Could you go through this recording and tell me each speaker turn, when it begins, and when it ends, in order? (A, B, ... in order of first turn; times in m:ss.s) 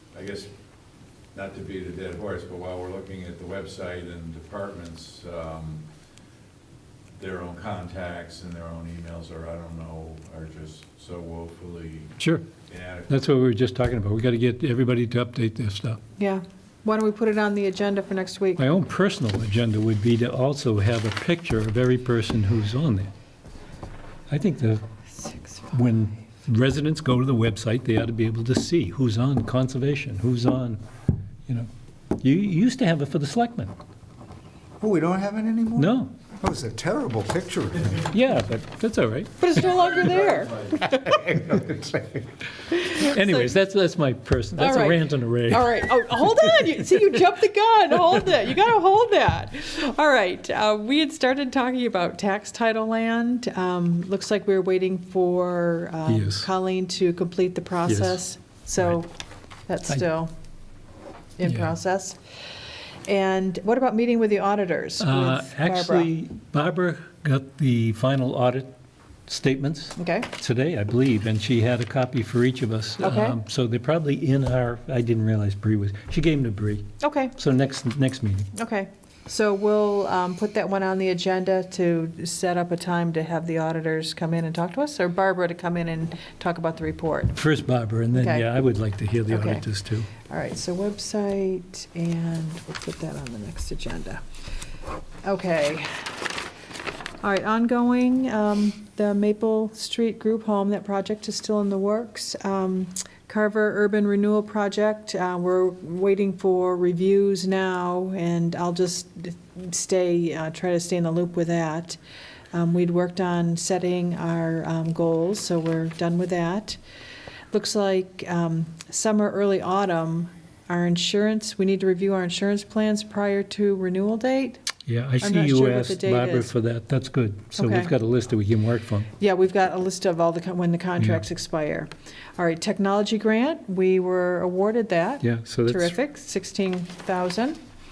0:00.1-0:00.5 A
0:01.3-0:05.9 A
0:07.2-0:12.1 A
0:12.2-0:12.4 B
0:12.7-0:13.2 A
0:13.1-0:16.0 B
0:16.2-0:18.6 C
0:18.6-0:23.1 B
0:24.3-0:24.8 B
0:25.7-0:30.8 B
0:32.2-0:33.7 B
0:34.8-0:38.1 D
0:35.8-0:36.1 B
0:38.1-0:39.6 B
0:39.4-0:41.2 C
0:40.9-0:42.2 D
0:42.8-0:43.5 C
0:42.8-0:46.4 B
0:44.6-0:59.1 C
0:56.1-0:56.5 B
0:57.9-0:58.2 B
0:59.7-1:00.3 C
1:01.4-1:02.2 C
1:01.4-1:01.7 B
1:03.1-1:06.1 C
1:05.0-1:08.7 B
1:09.3-1:18.5 B
1:10.0-1:10.3 C
1:13.0-1:13.4 C
1:17.0-1:17.3 C
1:18.6-1:27.4 C
1:27.4-1:30.1 B
1:28.1-1:28.5 C
1:29.3-1:29.7 C
1:30.2-1:34.2 C
1:35.2-1:36.1 C
1:37.2-1:52.0 C
1:52.5-1:56.8 C
1:57.5-2:04.6 C
2:04.8-2:09.1 B
2:05.2-2:06.5 C
2:07.6-2:07.9 C
2:09.2-2:17.6 C
2:15.2-2:15.9 B